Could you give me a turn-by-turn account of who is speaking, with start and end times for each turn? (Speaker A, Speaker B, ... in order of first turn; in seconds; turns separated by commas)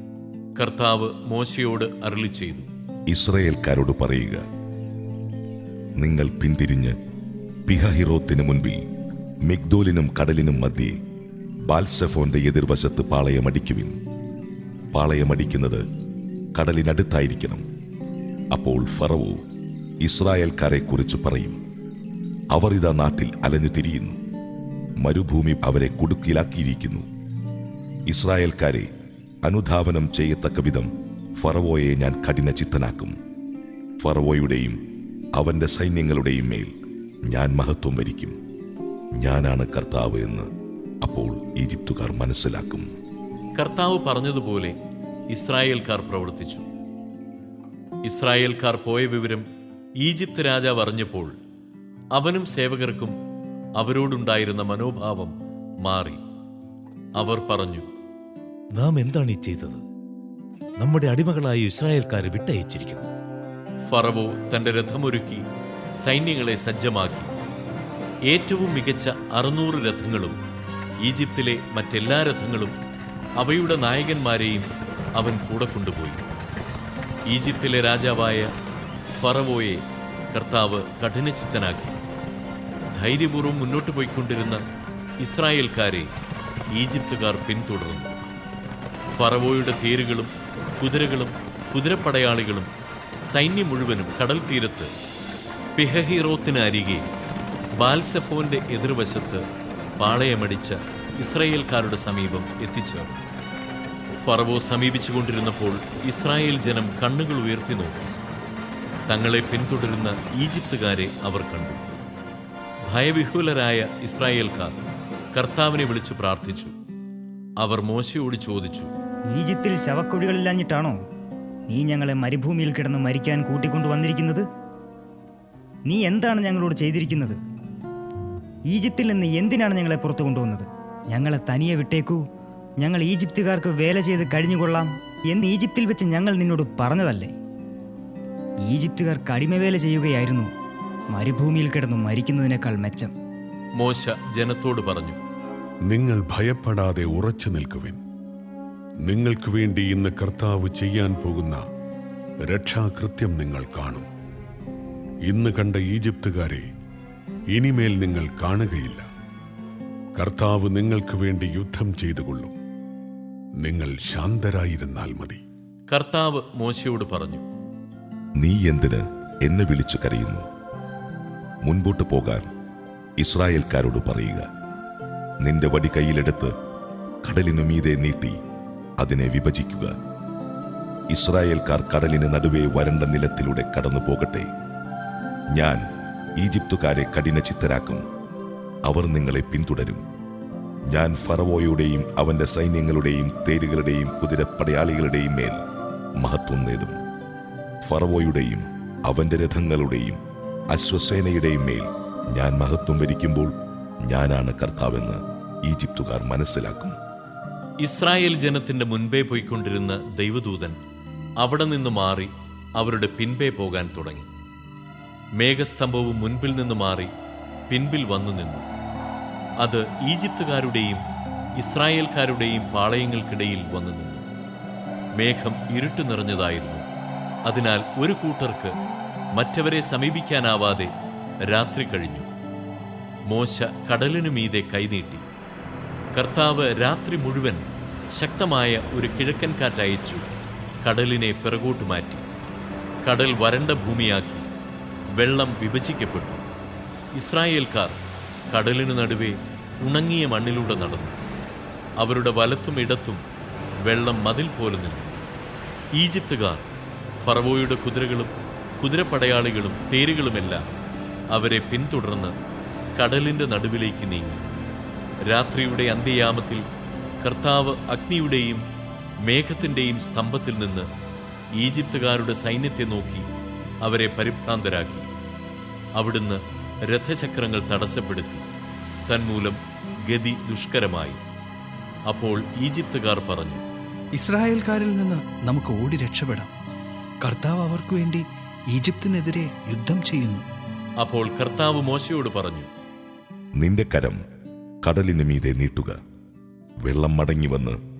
Speaker A: 0.6-2.7, Speaker B: 3.1-4.4, Speaker B: 6.0-7.0, Speaker B: 7.7-8.8, Speaker B: 9.4-11.0, Speaker B: 11.7-13.9, Speaker B: 14.9-15.8, Speaker B: 16.6-17.6, Speaker B: 18.5-19.4, Speaker B: 20.0-21.6, Speaker B: 22.5-24.2, Speaker B: 25.0-27.1, Speaker B: 28.1-28.9, Speaker B: 29.4-30.9, Speaker B: 31.4-33.2, Speaker B: 34.0-34.8, Speaker B: 35.4-36.7, Speaker B: 37.3-38.4, Speaker B: 39.2-40.5, Speaker B: 41.0-42.9, Speaker A: 43.6-44.8, Speaker A: 45.3-46.7, Speaker A: 48.0-49.5, Speaker A: 50.0-51.3, Speaker A: 52.1-53.2, Speaker A: 53.8-56.2, Speaker A: 57.2-57.9, Speaker C: 58.7-59.8, Speaker C: 60.8-63.1, Speaker A: 63.9-65.5, Speaker A: 66.0-67.3, Speaker A: 68.3-70.4, Speaker A: 71.0-72.8, Speaker A: 73.4-76.2, Speaker A: 77.3-78.5, Speaker A: 79.2-82.0, Speaker A: 82.9-84.6, Speaker A: 85.2-86.1, Speaker A: 86.7-88.1, Speaker A: 89.1-92.7, Speaker A: 93.3-94.9, Speaker A: 95.8-97.1, Speaker A: 97.8-99.4, Speaker A: 100.0-103.2, Speaker A: 104.2-108.1, Speaker A: 109.1-111.9, Speaker A: 112.9-114.8, Speaker A: 115.3-116.8, Speaker A: 117.6-118.9, Speaker D: 119.3-121.0, Speaker D: 121.7-124.5, Speaker D: 125.9-127.4, Speaker D: 128.7-132.2, Speaker D: 132.8-137.3, Speaker D: 138.7-140.5, Speaker D: 141.1-143.1, Speaker A: 143.8-145.2, Speaker E: 145.9-148.0, Speaker E: 149.1-151.6, Speaker E: 152.4-154.1, Speaker E: 155.3-156.7, Speaker E: 157.6-159.1, Speaker E: 160.2-162.6, Speaker E: 163.6-165.4, Speaker A: 165.9-167.4, Speaker B: 168.4-170.4, Speaker B: 171.6-172.5, Speaker B: 173.2-174.5, Speaker B: 175.4-176.5, Speaker B: 177.2-178.4, Speaker B: 179.0-179.9, Speaker B: 181.1-184.5, Speaker B: 185.6-185.8, Speaker B: 186.4-188.0, Speaker B: 188.9-190.0, Speaker B: 190.9-195.6, Speaker B: 196.2-197.0, Speaker B: 197.8-200.2, Speaker B: 200.7-203.5, Speaker B: 204.1-207.0, Speaker A: 207.8-210.8, Speaker A: 211.4-214.3, Speaker A: 215.4-217.1, Speaker A: 217.7-218.7, Speaker A: 219.6-221.0, Speaker A: 221.6-224.3, Speaker A: 225.2-226.9, Speaker A: 227.5-228.8, Speaker A: 229.4-230.9, Speaker A: 231.5-232.3, Speaker A: 233.3-235.3, Speaker A: 236.2-240.2, Speaker A: 240.8-242.2, Speaker A: 243.0-244.5, Speaker A: 245.2-246.4, Speaker A: 247.2-248.0, Speaker A: 248.5-251.2, Speaker A: 252.0-253.2, Speaker A: 253.8-255.2, Speaker A: 255.9-256.7, Speaker A: 257.2-260.6, Speaker A: 261.3-262.3, Speaker A: 263.0-264.5, Speaker A: 265.3-266.7, Speaker A: 267.2-268.6, Speaker A: 269.2-270.9, Speaker A: 271.6-273.3, Speaker A: 273.8-275.1, Speaker A: 276.0-278.4, Speaker A: 279.1-281.2, Speaker A: 282.1-283.6, Speaker F: 284.2-286.5, Speaker F: 287.2-290.4, Speaker A: 291.0-292.7, Speaker B: 293.6-294.2, Speaker B: 294.8-296.0, Speaker B: 296.8-297.8